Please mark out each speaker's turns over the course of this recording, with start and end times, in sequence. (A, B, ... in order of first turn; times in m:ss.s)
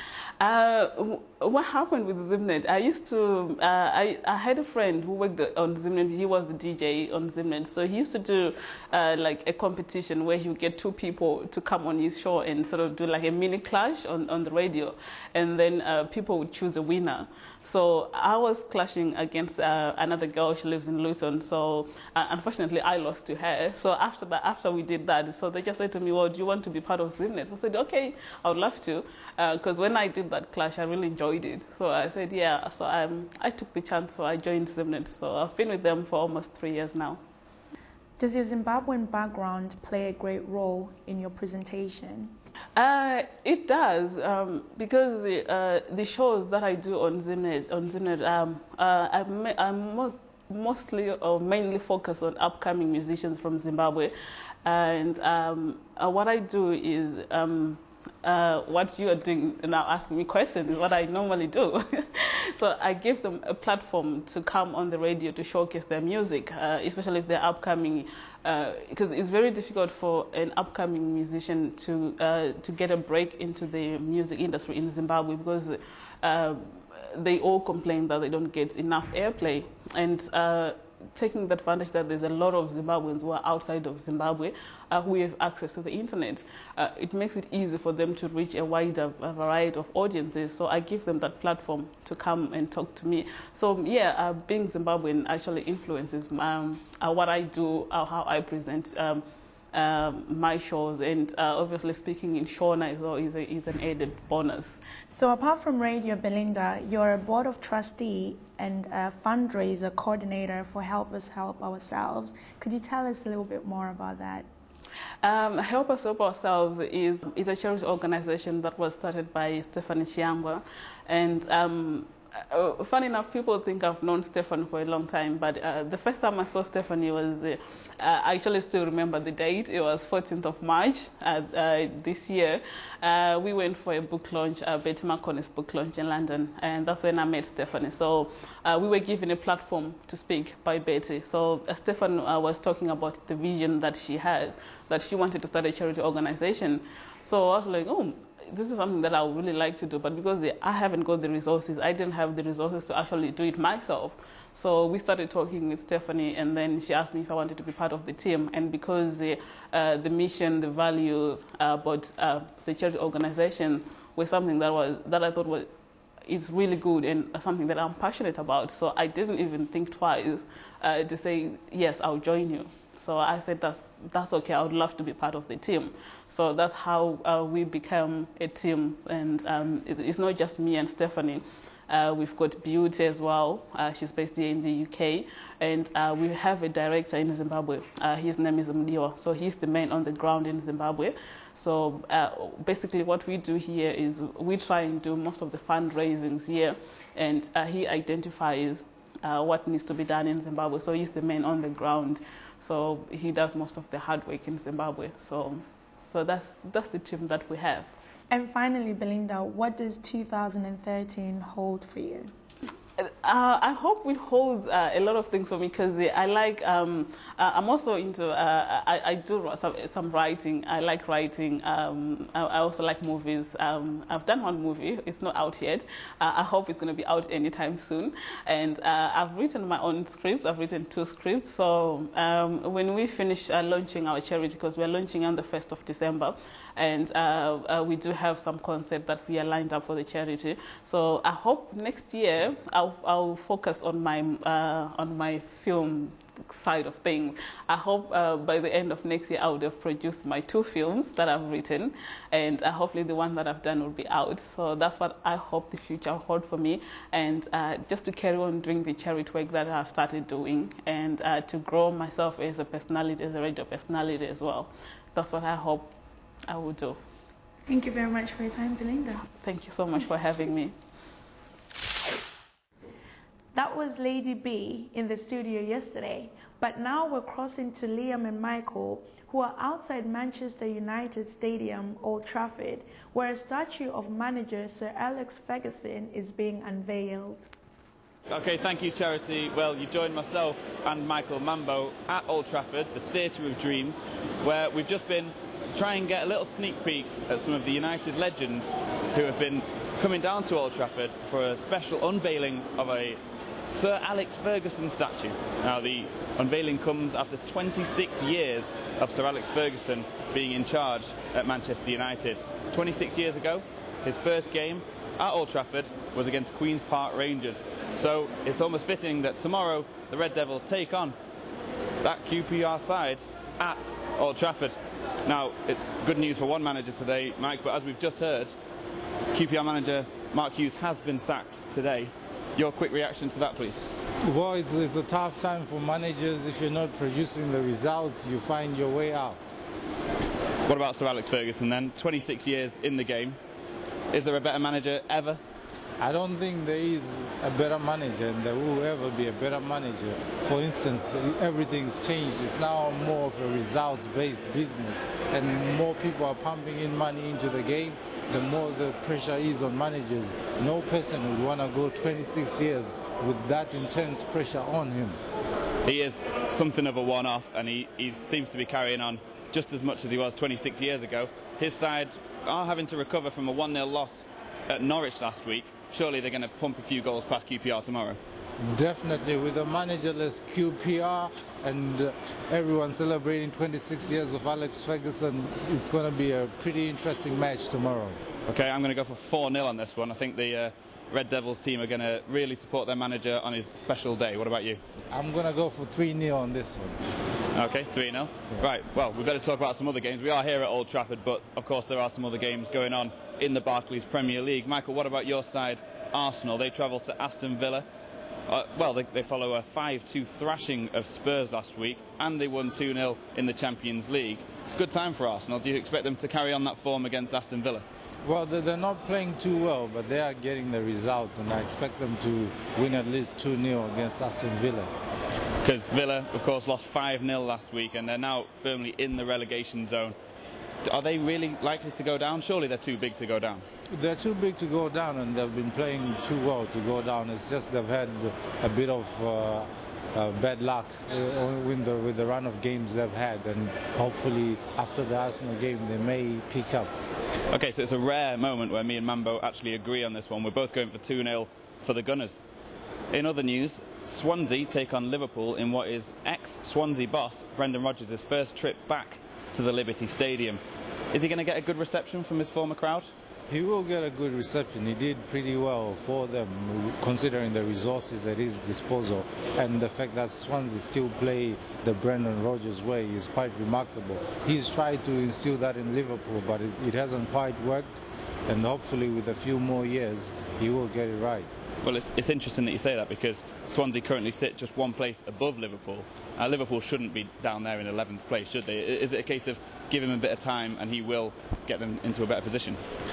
0:00.4-0:37.2 A
0:38.2-0:42.4 B
0:42.8-0:54.1 A
0:54.6-1:44.8 A
1:45.1-1:54.5 B
1:55.2-2:45.7 A
2:46.3-3:27.9 A
3:28.3-3:32.3 B
3:33.0-4:26.0 A
4:26.5-4:27.0 A
4:27.7-4:29.2 B
4:29.3-4:30.7 A
4:33.5-4:47.5 B
4:48.3-5:21.2 C
5:22.0-5:28.6 C
5:29.3-5:33.8 C
5:34.2-5:39.4 D
5:40.7-5:43.4 C
5:44.1-5:45.4 C
5:46.0-6:05.2 D
6:05.8-6:18.2 C
6:18.6-6:28.2 D
6:28.5-6:34.8 C
6:35.1-6:37.0 D
6:37.5-6:47.9 C
6:48.5-6:57.8 C
6:58.2-7:04.9 D
7:05.6-7:10.2 C
7:10.8-7:13.6 C
7:13.9-7:26.9 D
7:27.5-7:32.4 C
7:33.1-7:40.6 C
7:41.1-7:43.1 C
7:43.5-8:01.5 D
8:01.8-8:12.8 C